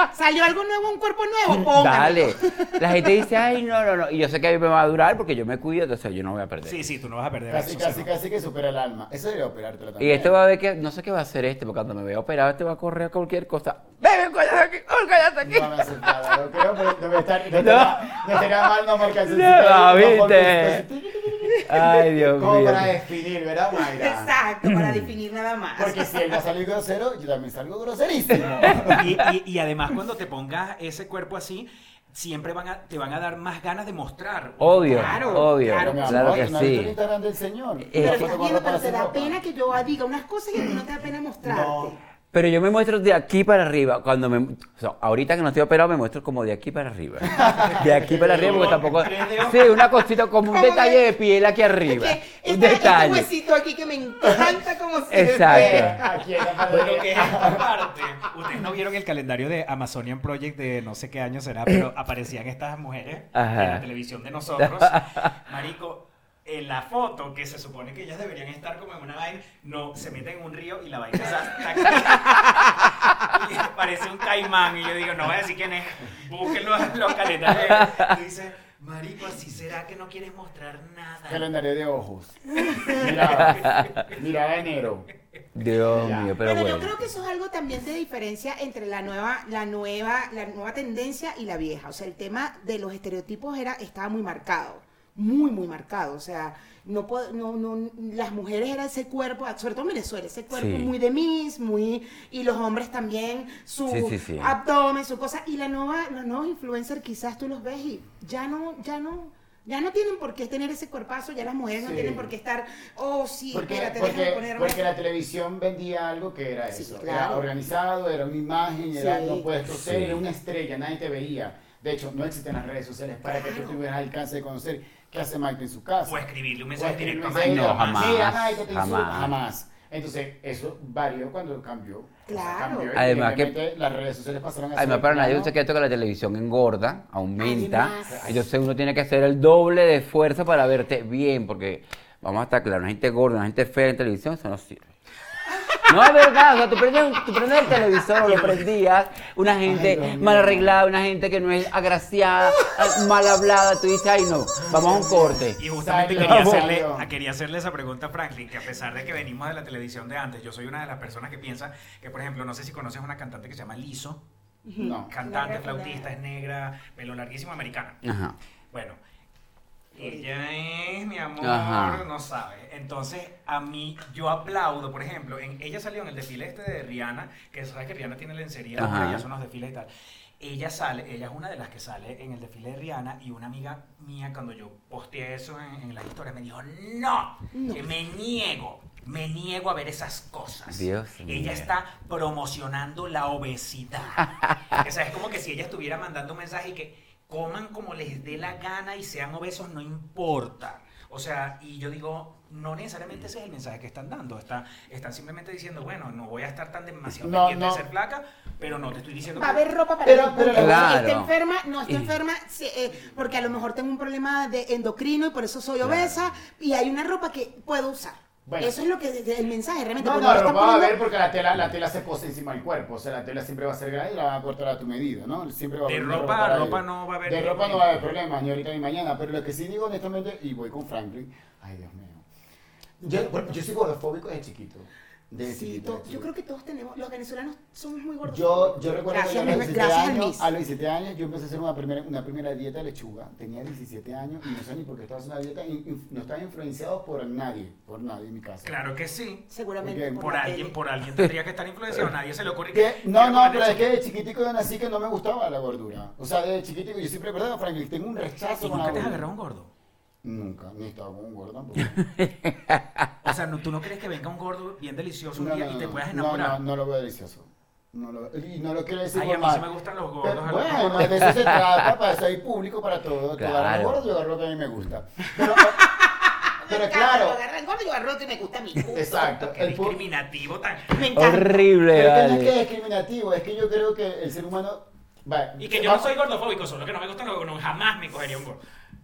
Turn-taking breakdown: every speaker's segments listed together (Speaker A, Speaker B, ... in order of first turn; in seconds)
Speaker A: 0.1-3.1, 23.7-26.3, 34.9-36.5, 38.0-42.0, 50.4-51.1, 51.8-56.1, 86.4-114.9, 116.7-117.5, 118.9-119.5, 123.2-123.8, 132.2-132.9, 137.4-138.3, 164.6-166.1, 187.5-187.8, 209.4-221.0, 235.4-240.5, 249.5-250.8, 275.5-279.3, 280.9-281.7
Speaker B: 1.5-6.8, 10.0-16.1, 17.5-18.5, 19.1-20.8, 21.6-22.9, 24.6-25.0, 28.6-29.2, 34.6-36.9, 37.9-38.3, 42.3-53.3, 55.1-56.0, 63.3-63.8, 64.6-65.3, 77.6-78.1, 83.2-84.0, 85.5-86.9, 100.5-100.9, 103.9-104.5, 119.7-120.2, 127.3-129.3, 132.9-133.6, 134.8-144.9, 145.9-155.6, 156.2-156.6, 168.0-168.3, 171.4-172.1, 178.8-179.2, 190.7-191.7, 210.5-211.3, 261.8-263.1, 271.0-271.8, 273.4-274.0, 281.1-282.5
Speaker C: 6.6-8.1, 28.9-35.5, 48.3-49.8, 56.6-81.5, 82.6-84.1, 126.0-128.4, 148.2-148.6, 155.6-164.2, 165.1-168.0, 168.7-169.0, 169.9-179.9, 180.4-209.7, 225.8-228.0, 248.6-249.5, 250.2-253.8, 258.6-259.7, 263.2-266.6, 269.1-271.4, 279.2-281.0, 285.6-288.6
Speaker D: 7.5-10.3, 15.4-24.3, 25.8-29.1, 35.7-39.4, 41.4-41.9, 47.2-49.1, 55.5-57.8, 81.3-85.1, 85.8-86.4, 111.8-112.3, 113.5-135.5, 149.6-150.8, 154.7-157.1, 164.8-165.1, 207.2-207.8, 210.0-211.0, 218.4-218.8, 220.0-232.2, 233.0-236.3, 238.2-248.7, 249.8-250.3, 252.7-259.2, 260.2-262.0, 265.3-269.6, 270.2-275.9, 276.7-277.4, 278.8-280.0, 281.9-286.1